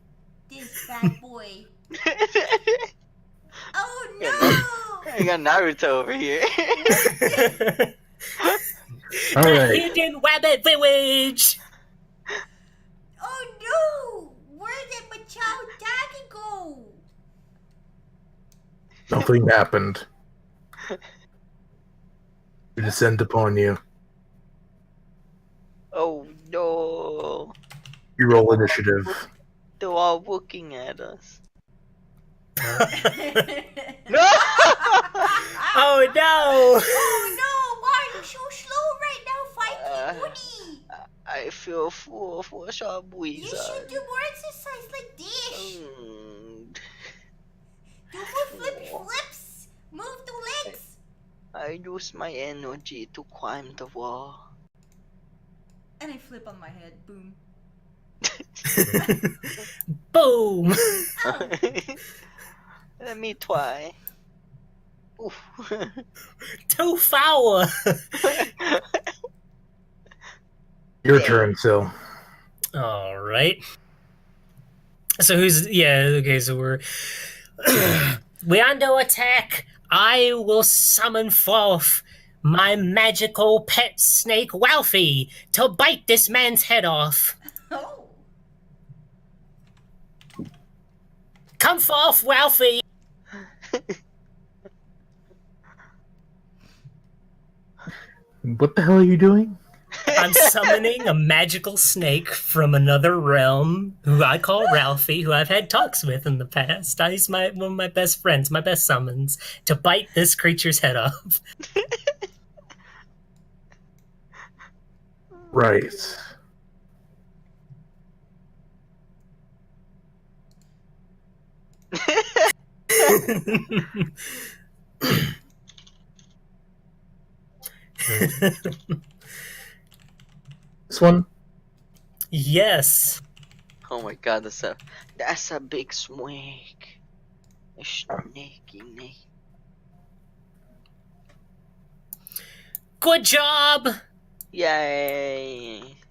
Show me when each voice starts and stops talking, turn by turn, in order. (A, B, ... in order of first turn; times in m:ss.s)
0:00.5-0:01.7 A
0:02.0-0:02.9 B
0:03.7-0:05.1 A
0:04.2-0:07.1 B
0:06.8-0:07.6 A
0:07.0-0:07.9 C
0:09.3-0:11.6 C
0:09.4-0:09.8 D
0:13.2-0:17.0 A
0:19.1-0:20.0 D
0:22.8-0:23.8 D
0:25.9-0:27.6 B
0:28.2-0:29.3 D
0:29.8-0:31.4 B
0:32.6-0:33.5 C
0:32.9-0:40.8 A
0:34.1-0:35.5 B
0:35.7-0:37.4 C
0:39.7-0:40.4 B
0:41.1-0:43.9 B
0:43.3-0:45.8 A
0:45.5-0:46.8 B
0:48.1-0:51.0 A
0:48.5-0:49.0 B
0:51.6-0:54.5 B
0:56.0-0:57.4 A
0:58.7-0:59.5 C
1:00.1-1:01.1 C
1:01.2-1:01.6 A
1:01.3-1:02.0 B
1:03.0-1:04.0 B
1:05.2-1:06.0 B
1:06.7-1:08.5 C
1:08.3-1:08.8 B
1:11.0-1:11.9 D
1:11.1-1:11.5 B
1:12.8-1:13.6 C
1:15.2-1:27.4 C
1:27.7-1:28.2 A
1:31.6-1:32.8 C
1:38.5-1:39.6 D
1:40.1-1:51.4 C
1:55.5-1:56.2 D
2:02.0-2:02.4 B
2:02.9-2:04.1 C
2:08.0-2:09.0 C
2:10.9-2:11.3 D
2:12.3-2:13.2 C
2:13.9-2:17.0 B
2:17.8-2:19.2 B
2:23.0-2:23.9 C
2:24.5-2:25.9 B